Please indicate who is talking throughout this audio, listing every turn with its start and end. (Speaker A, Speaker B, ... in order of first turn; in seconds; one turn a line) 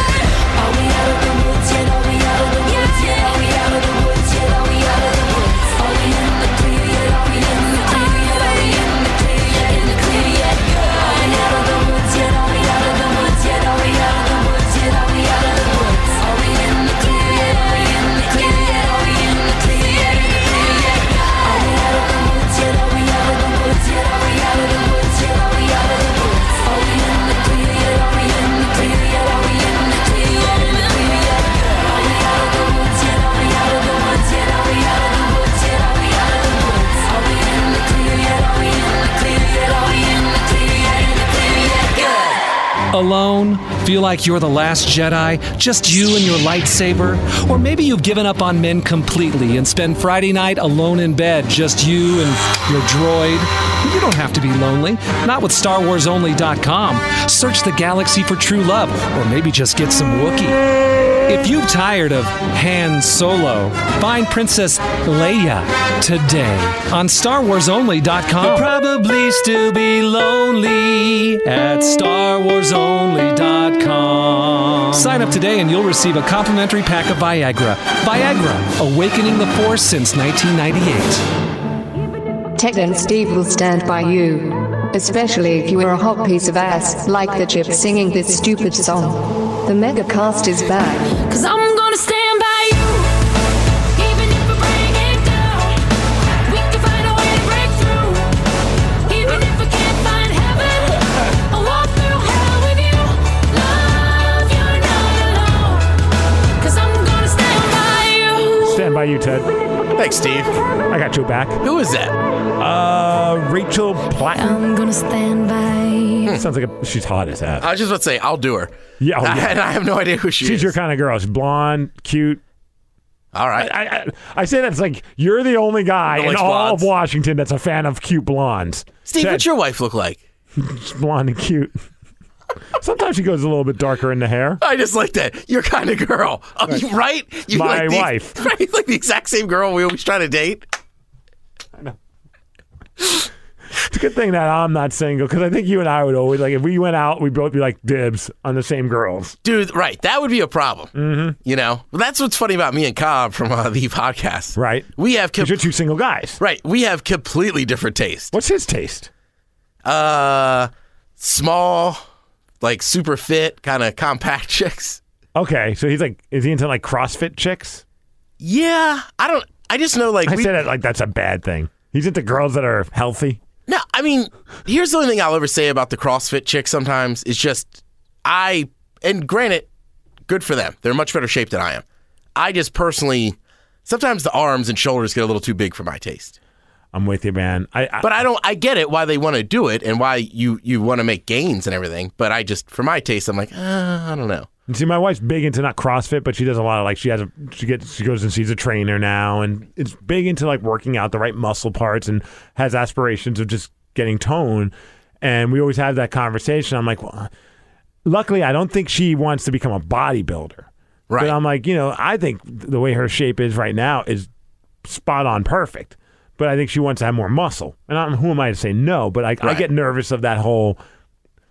Speaker A: 0.6-42.4
Speaker B: 42.9-60.6
Speaker B: 61.3-81.2
Speaker C: 68.4-68.7
Speaker D: 82.6-91.2
Speaker A: 91.2-93.2
Speaker A: 93.9-95.8
Speaker A: 96.4-98.5
Speaker A: 99.0-105.9
Speaker A: 106.6-108.8
Speaker C: 108.6-109.5
Speaker E: 110.0-110.5
Speaker C: 110.9-111.6
Speaker E: 111.6-112.2
Speaker C: 112.6-114.6
Speaker A: 114.4-116.3
Speaker C: 116.3-117.7
Speaker E: 117.6-120.8
Speaker C: 119.0-119.6
Speaker C: 120.4-122.4
Speaker E: 123.3-123.7
Speaker C: 123.6-129.4
Speaker E: 126.1-126.9
Speaker E: 129.1-130.2
Speaker C: 130.6-131.8
Speaker C: 132.8-134.6
Speaker E: 134.6-140.7
Speaker C: 137.5-138.4
Speaker C: 143.8-149.4
Speaker E: 149.4-150.9
Speaker C: 150.9-151.4
Speaker E: 151.4-155.6
Speaker C: 154.6-156.4
Speaker E: 156.4-158.3
Speaker C: 158.3-159.1
Speaker E: 159.8-162.0
Speaker E: 162.6-165.0
Speaker C: 165.4-167.8
Speaker E: 168.4-170.5
Speaker C: 170.3-173.4
Speaker E: 173.7-179.7
Speaker E: 180.3-181.8
Speaker E: 182.3-186.4
Speaker C: 186.9-188.1
Speaker E: 188.0-194.5
Speaker C: 194.7-207.3
Speaker C: 208.1-214.3
Speaker E: 211.1-211.3
Speaker C: 214.8-220.8